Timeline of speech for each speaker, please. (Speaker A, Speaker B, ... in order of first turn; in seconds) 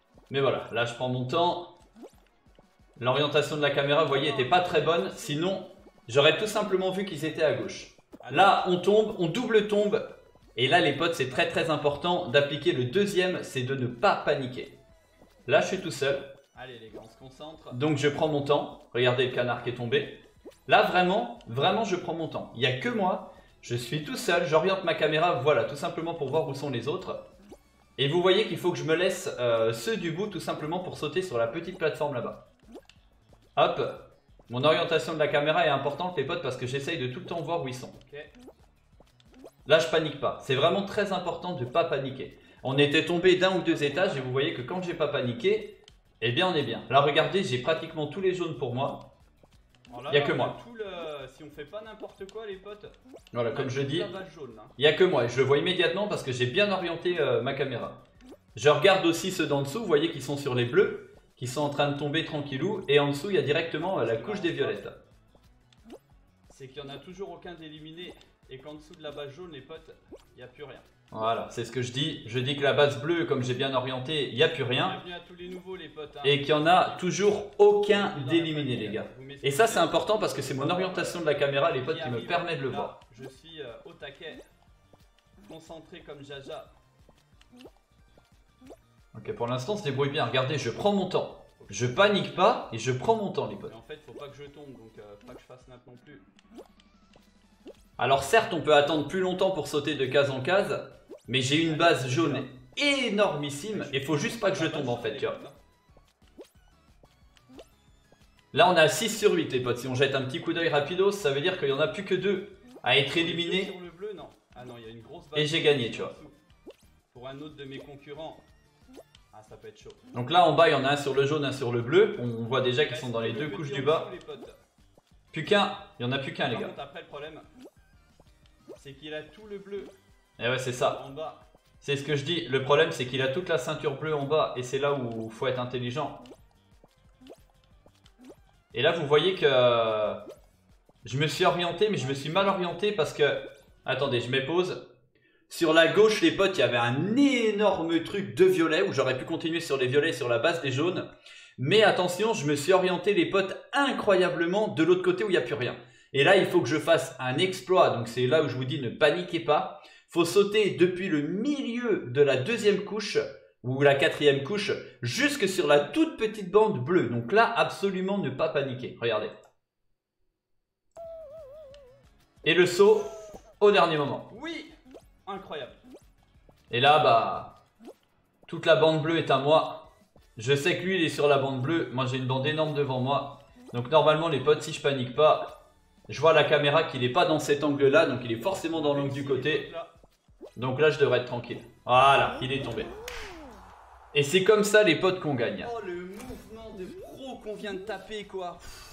Speaker A: 0.3-1.8, 3.0-10.0, 10.6-14.8, 15.5-16.4, 17.7-27.3, 28.0-32.5, 33.6-38.0, 39.7-49.1, 50.1-50.5, 53.3-54.1, 54.8-58.0, 58.5-65.0, 71.1-75.0, 76.2-83.0, 89.1-93.8, 98.0-105.4, 108.5-113.7, 115.3-116.2, 120.1-124.1, 125.3-126.7, 130.4-131.0, 131.8-136.2, 138.7-140.2, 141.1-144.8, 145.5-151.1, 151.6-169.3, 172.4-174.3, 176.7-177.6, 178.5-189.7, 190.6-192.9, 194.1-195.7
Speaker B: 4.0-5.5, 8.2-8.7, 16.6-18.0, 38.0-38.3, 43.5-44.4, 49.9-52.9, 53.5-54.8, 63.8-64.8, 66.5-70.9, 74.8-77.2, 77.9-84.4, 85.4-86.7, 91.6-92.7, 93.6-96.3, 101.6-102.5, 103.7-105.6, 113.1-116.4, 117.1-118.5, 119.3-120.1, 122.8-124.6, 126.5-127.5, 128.8-130.0, 130.8-131.4, 174.3-174.7, 175.3-175.8, 188.2-189.9, 195.6-198.8